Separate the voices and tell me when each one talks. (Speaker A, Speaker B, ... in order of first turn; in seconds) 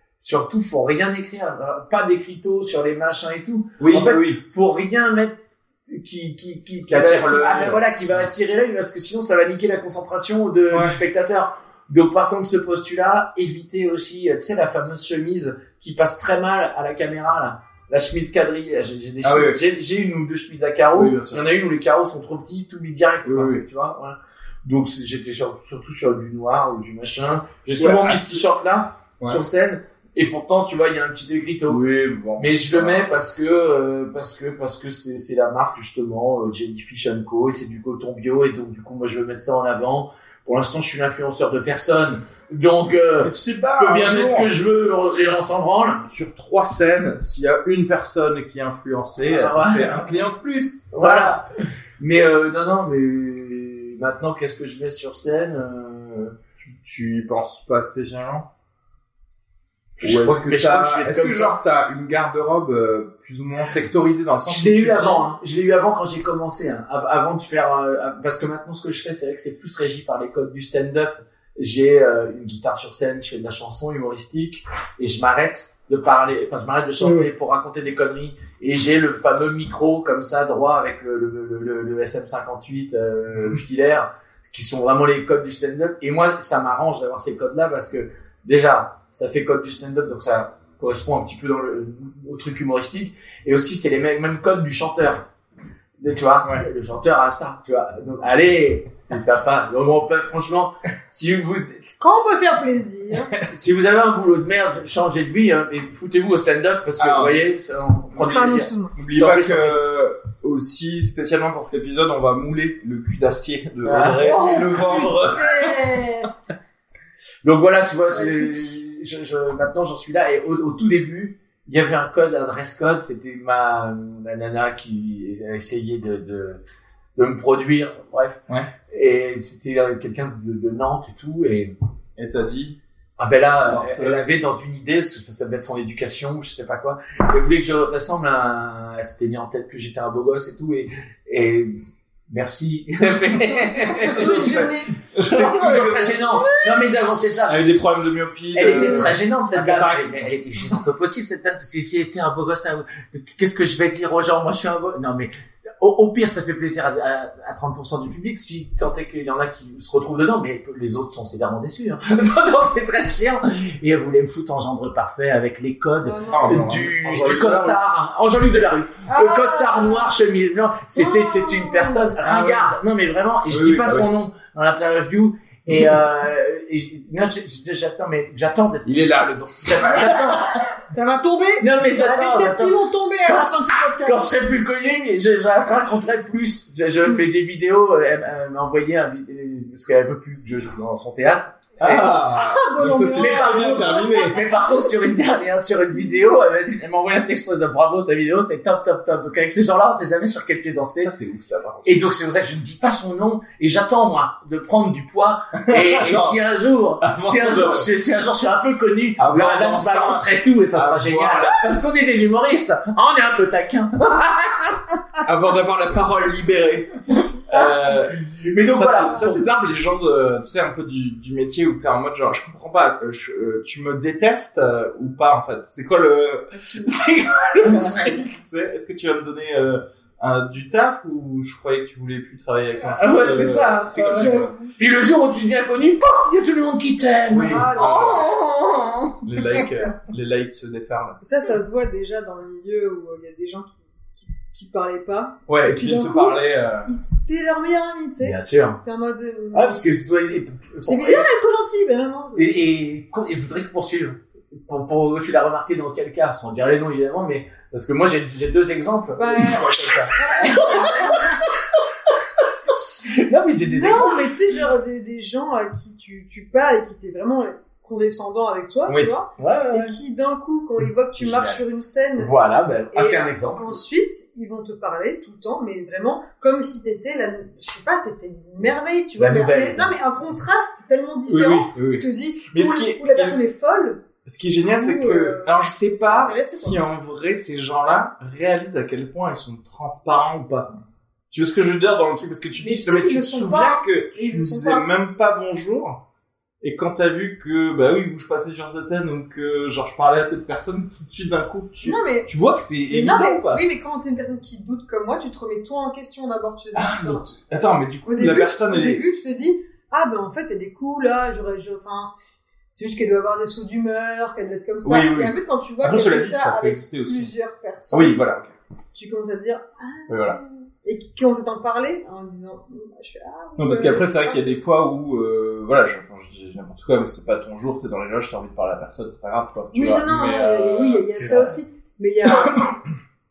Speaker A: 0.2-31.8, 32.4-46.0, 49.2-50.1, 50.9-51.5, 52.0-56.4, 60.0-61.6, 64.5-95.3, 96.0-101.9, 103.5-109.8, 113.8-114.8, 117.4-126.6, 127.2-131.7, 133.2-141.8, 142.3-144.8, 145.3-147.7, 148.5-180.5, 181.6-192.2, 193.2-201.1, 201.8-215.0, 217.5-219.5, 232.9-239.1, 248.2-248.8, 249.5-251.3, 252.4-261.2, 263.0-264.3, 269.4-270.0, 272.2-273.8, 279.2-279.9
Speaker B: 3.8-4.4, 6.9-7.8, 10.7-11.0, 19.2-19.6, 20.9-21.4, 23.2-23.6, 27.8-28.4, 31.7-33.1, 43.2-44.5, 46.0-51.4, 56.6-58.5, 60.0-65.2, 107.0-107.4, 109.0-116.0, 132.2-132.8, 133.7-134.2, 144.1-146.4, 147.5-150.3, 166.3-167.8, 172.2-172.7, 173.5-174.1, 178.8-180.6, 191.8-194.4, 201.0-202.0, 205.6-206.4, 207.0-207.9, 209.2-211.8, 215.2-234.5, 237.3-238.3, 239.2-241.2, 245.5-246.9, 259.5-260.1, 271.1-271.6, 281.3-283.4, 284.2-290.7, 291.3-296.0, 296.6-303.7, 306.8-309.0, 314.8-317.3, 317.9-318.5, 320.1-320.4, 323.6-331.6, 332.3-332.8
Speaker C: 102.0-103.3, 108.3-108.9, 114.2-116.3, 118.1-118.6, 143.7-145.0, 148.7-149.1, 166.0-166.7, 169.1-170.1, 170.9-172.2, 180.9-184.3, 192.3-194.8, 226.5-227.0, 234.0-234.7, 237.4-238.4, 239.6-239.9, 241.2-249.8, 250.8-252.7, 259.2-261.4, 263.7-272.3, 272.9-284.0, 284.7-286.8, 292.6-294.9, 301.8-302.3, 302.9-307.2, 308.1-312.1, 312.7-318.2, 318.9-324.5, 329.7-332.8